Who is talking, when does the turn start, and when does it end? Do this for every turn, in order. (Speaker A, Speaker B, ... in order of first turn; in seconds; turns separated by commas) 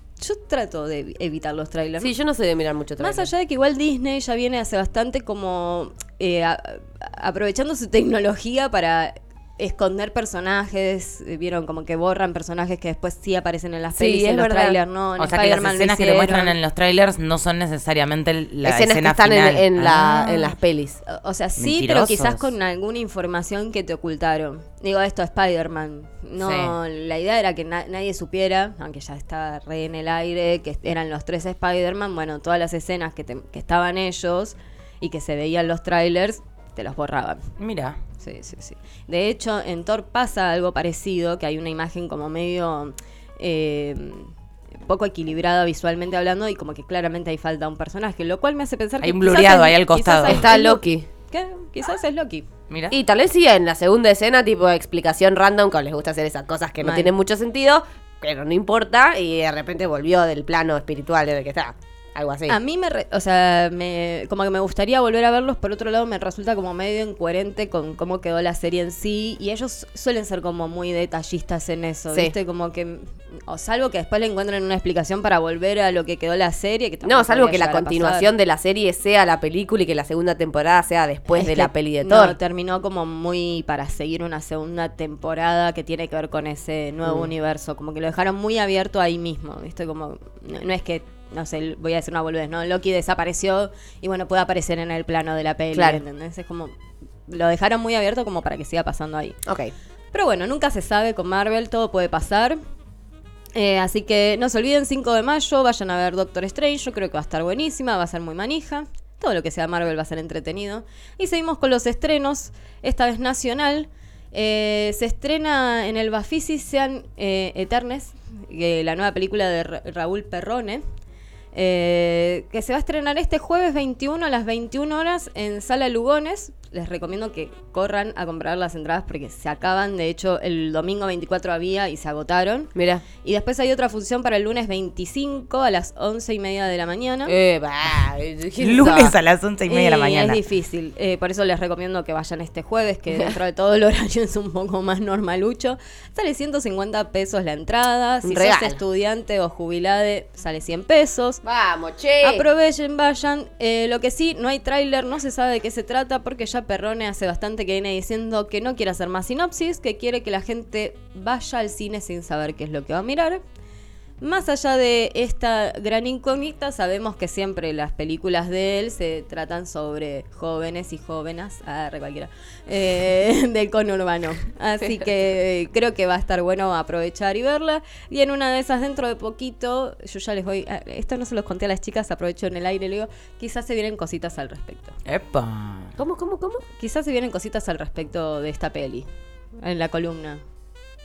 Speaker A: 0.2-2.1, Speaker B: 2.0-3.3, Speaker A: 3.0-16.6, Speaker B: 14.0-14.8, Speaker C: 15.2-20.2, Speaker B: 18.6-21.0, Speaker A: 20.2-20.5, Speaker A: 21.1-37.5, Speaker C: 21.6-22.5, Speaker C: 26.4-26.8, Speaker C: 37.6-38.0, Speaker A: 38.2-44.3, Speaker A: 44.9-52.5, Speaker C: 49.0-50.4, Speaker B: 50.3-51.1, Speaker C: 52.7-53.0, Speaker B: 52.9-62.6, Speaker A: 56.8-57.1, Speaker A: 62.5-78.3, Speaker B: 77.0-82.4, Speaker A: 81.3-96.8, Speaker B: 95.7-96.0, Speaker A: 97.3-99.4, Speaker B: 99.5-99.7, Speaker A: 100.1-102.6, Speaker A: 103.5-120.8, Speaker A: 121.5-132.7, Speaker B: 132.8-133.0, Speaker A: 133.2-137.3, Speaker B: 137.3-139.2, Speaker C: 138.6-140.4, Speaker A: 139.7-151.4, Speaker B: 148.2-148.8, Speaker B: 151.4-152.5, Speaker A: 152.2-163.4, Speaker A: 164.2-185.0, Speaker C: 185.1-185.9, Speaker B: 186.0-186.6, Speaker A: 186.8-189.1, Speaker A: 189.6-190.4